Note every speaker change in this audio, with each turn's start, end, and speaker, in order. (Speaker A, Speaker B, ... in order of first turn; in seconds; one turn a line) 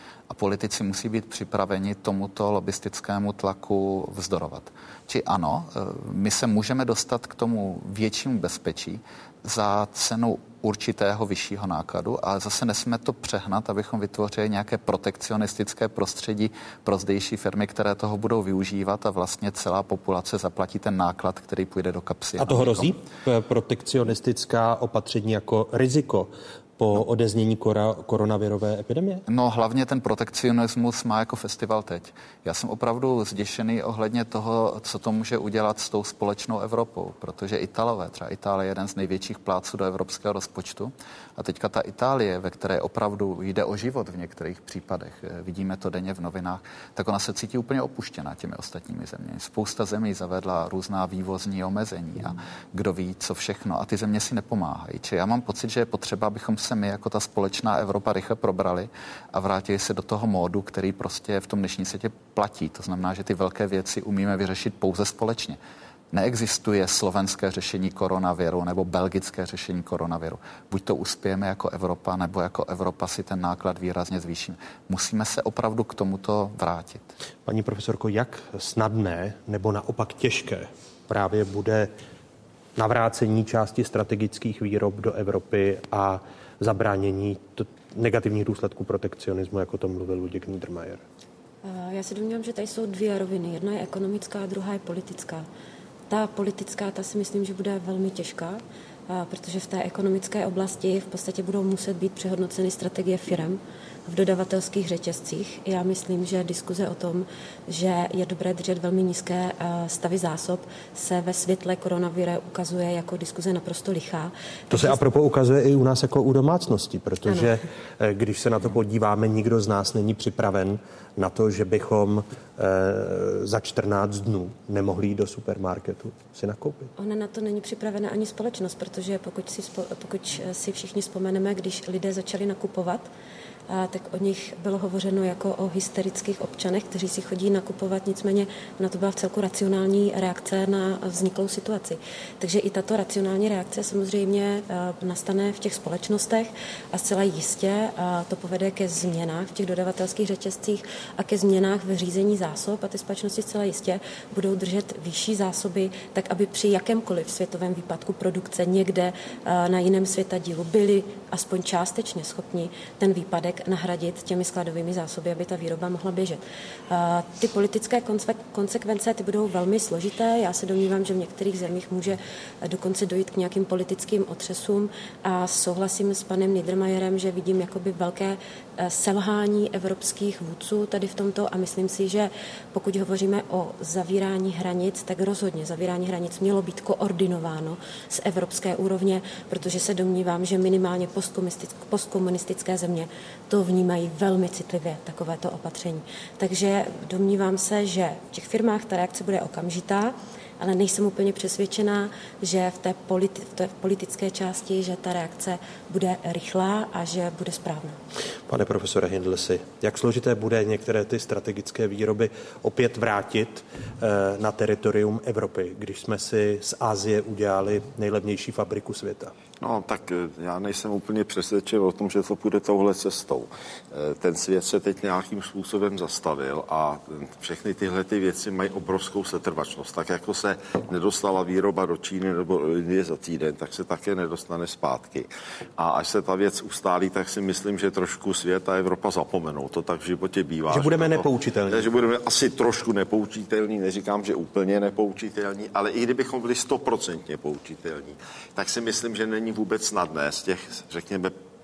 Speaker A: 0.3-22.9
Speaker B: 22.4-29.2
Speaker A: 29.3-65.6
Speaker A: 66.1-77.1
Speaker B: 77.5-81.9
Speaker B: 82.8-91.0
Speaker C: 91.6-95.5
Speaker C: 96.1-115.0
Speaker B: 114.7-126.9
Speaker C: 127.0-133.1
Speaker C: 133.7-208.0
Speaker B: 208.5-219.3
Speaker D: 219.6-251.3
Speaker B: 240.7-241.9